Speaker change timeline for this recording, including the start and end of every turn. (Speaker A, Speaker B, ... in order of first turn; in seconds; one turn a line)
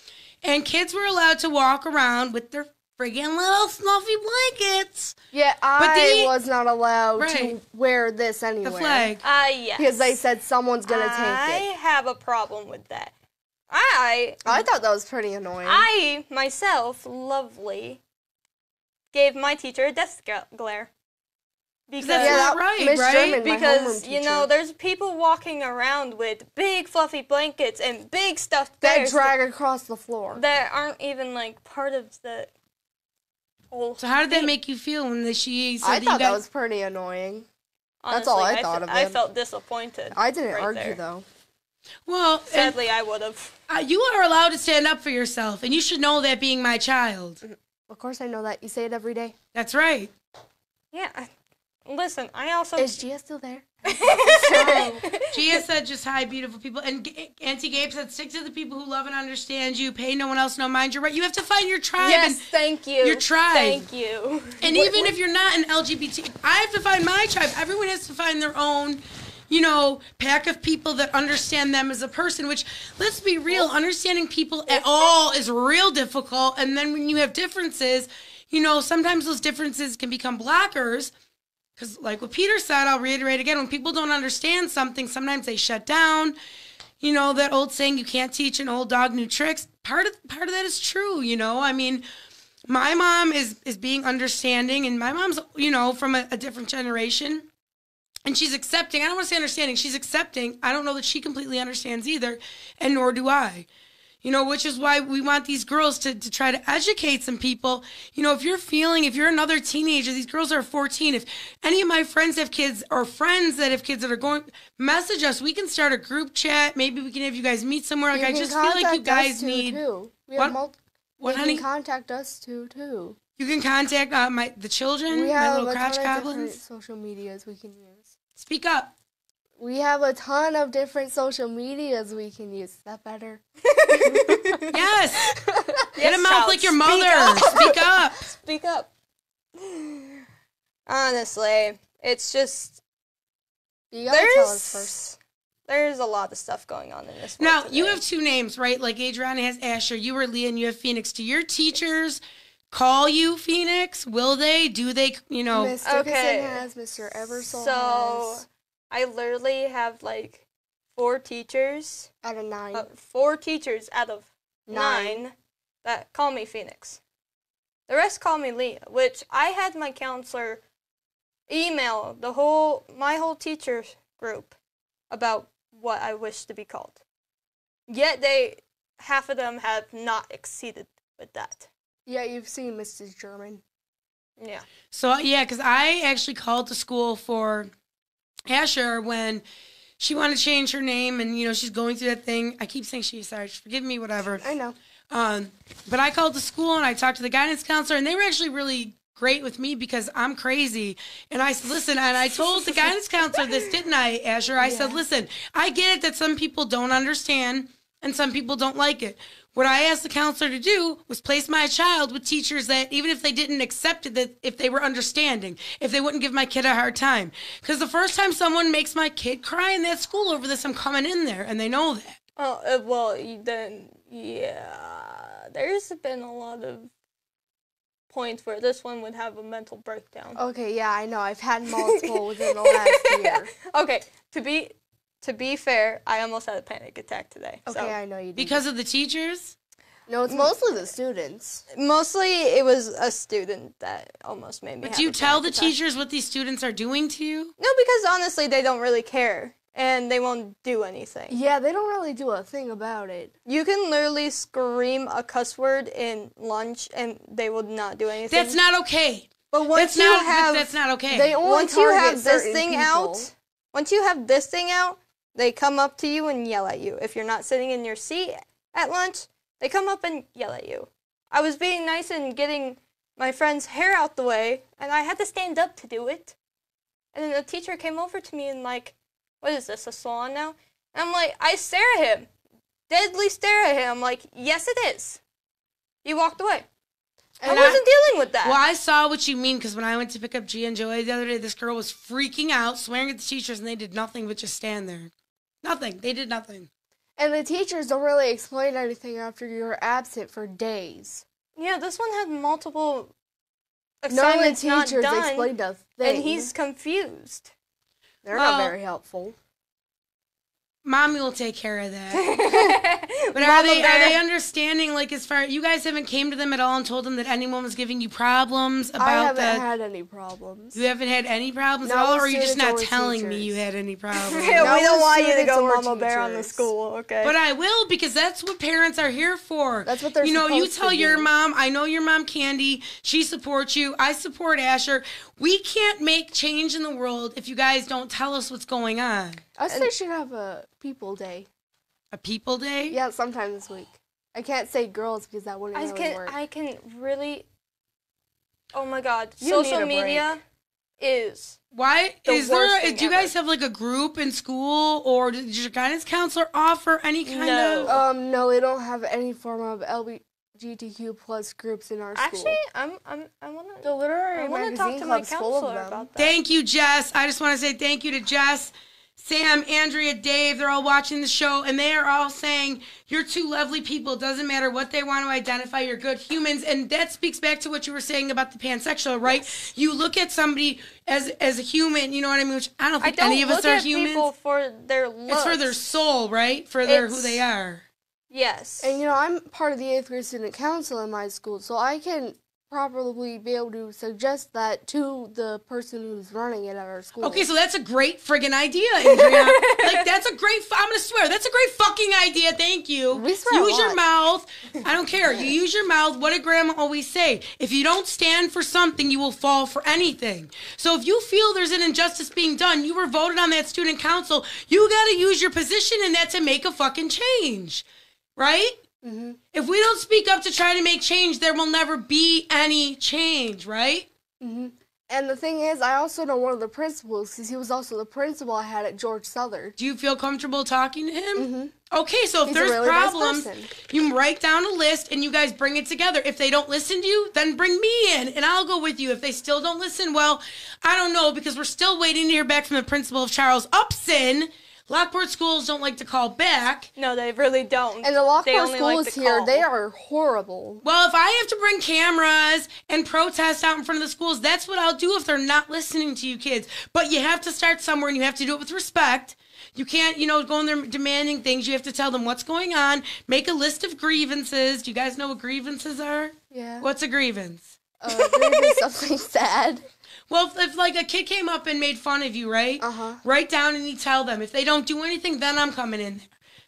Speaker A: 0.4-5.2
Speaker B: 5.3-9.1
Speaker A: 5.8-6.3
Speaker A: 7.2-7.6
Speaker A: 8.6-9.2
Speaker C: 9.2-10.2
Speaker B: 9.8-11.7
Speaker C: 10.9-13.1
Speaker C: 13.7-14.7
Speaker B: 14.4-15.9
Speaker C: 15.7-18.0
Speaker C: 19.1-20.9
Speaker C: 21.9-22.5
Speaker A: 22.0-23.4
Speaker B: 22.2-24.5
Speaker C: 23.4-29.3
Speaker B: 28.8-30.4
Speaker C: 30.3-32.5
Speaker C: 33.7-34.5
Speaker A: 34.0-36.4
Speaker B: 35.8-37.5
Speaker C: 38.0-41.0
Speaker B: 38.1-39.2
Speaker B: 40.1-41.2
Speaker A: 42.1-42.8
Speaker C: 42.5-43.5
Speaker A: 43.7-47.4
Speaker B: 47.4-49.4
Speaker A: 49.5-50.1
Speaker C: 50.9-51.3
Speaker C: 51.9-53.0
Speaker B: 52.8-55.0
Speaker C: 53.9-55.6
Speaker A: 54.5-62.5
Speaker C: 62.0-65.1
Speaker A: 63.0-63.9
Speaker A: 64.6-81.1
Speaker A: 81.8-86.3
Speaker A: 87.0-92.0
Speaker A: 92.7-97.5
Speaker A: 98.3-103.7
Speaker A: 104.2-119.8
Speaker B: 118.1-123.2
Speaker A: 121.2-121.6
Speaker A: 123.4-126.6
Speaker B: 125.1-128.1
Speaker A: 128.4-128.9
Speaker B: 129.6-135.9
Speaker C: 133.7-134.7
Speaker A: 134.7-135.3
Speaker C: 136.0-138.9
Speaker A: 136.0-138.2
Speaker C: 139.6-140.2
Speaker C: 140.9-142.8
Speaker B: 143.9-144.9
Speaker C: 144.1-148.0
Speaker A: 147.4-155.8
Speaker B: 155.5-158.4
Speaker C: 155.8-156.6
Speaker C: 157.5-162.1
Speaker B: 162.2-162.9
Speaker C: 162.7-167.0
Speaker B: 164.7-165.2
Speaker C: 167.9-170.6
Speaker C: 171.5-174.6
Speaker C: 175.1-177.0
Speaker C: 177.9-181.7
Speaker B: 182.1-183.6
Speaker C: 184.4-184.7
Speaker A: 184.9-187.7
Speaker A: 188.5-189.4
Speaker A: 190.0-194.5
Speaker B: 194.4-194.8
Speaker A: 195.1-222.2
Speaker B: 204.6-205.0
Speaker C: 222.4-226.9
Speaker C: 228.1-230.4
Speaker B: 230.4-233.5
Speaker C: 231.8-238.0
Speaker B: 237.7-238.6
Speaker A: 238.4-239.5
Speaker B: 240.1-241.6
Speaker C: 241.7-245.8
Speaker A: 244.8-247.5
Speaker C: 247.6-251.4
Speaker B: 251.3-253.3
Speaker C: 253.5-258.6
Speaker A: 258.3-261.4
Speaker C: 259.5-260.7
Speaker B: 261.1-263.3
Speaker C: 261.4-276.4
Speaker C: 277.1-282.3
Speaker C: 282.9-285.2
Speaker C: 286.0-286.7
Speaker B: 287.4-287.8
Speaker A: 287.4-287.8
Speaker C: 287.5-288.6
Speaker A: 288.4-295.1
Speaker A: 295.6-296.7
Speaker B: 297.2-301.2
Speaker C: 301.6-303.1
Speaker C: 304.0-307.5
Speaker B: 304.1-306.5
Speaker B: 308.2-309.4
Speaker A: 308.3-308.8
Speaker A: 310.9-312.3
Speaker C: 312.1-314.2
Speaker A: 313.3-319.7
Speaker B: 319.0-320.8
Speaker A: 320.8-324.7
Speaker B: 321.8-323.6
Speaker C: 324.3-327.3
Speaker B: 324.6-326.7
Speaker A: 327.2-339.4
Speaker B: 329.9-331.3
Speaker B: 339.6-341.5
Speaker A: 342.1-343.0
Speaker B: 342.9-346.4
Speaker C: 345.8-347.5
Speaker C: 348.7-350.4
Speaker B: 349.4-350.4
Speaker C: 351.0-351.6
Speaker A: 351.7-358.0
Speaker C: 352.3-353.3
Speaker C: 357.3-358.0
Speaker B: 357.9-362.6
Speaker C: 362.1-366.4
Speaker B: 363.8-366.1
Speaker A: 366.2-384.3
Speaker C: 383.0-385.8
Speaker A: 385.3-387.8
Speaker C: 386.8-387.4
Speaker C: 388.3-389.0
Speaker B: 388.8-397.5
Speaker A: 397.2-417.8
Speaker C: 399.1-400.1
Speaker B: 403.1-404.0
Speaker A: 418.4-418.8
Speaker B: 419.0-419.4
Speaker A: 419.5-424.1
Speaker B: 424.4-429.8
Speaker A: 429.8-446.9
Speaker B: 431.4-431.7
Speaker B: 432.5-433.7
Speaker C: 447.0-449.6
Speaker B: 448.0-450.8
Speaker A: 450.8-467.7
Speaker B: 466.5-466.9
Speaker B: 468.0-469.9
Speaker A: 470.3-476.3
Speaker B: 472.8-473.2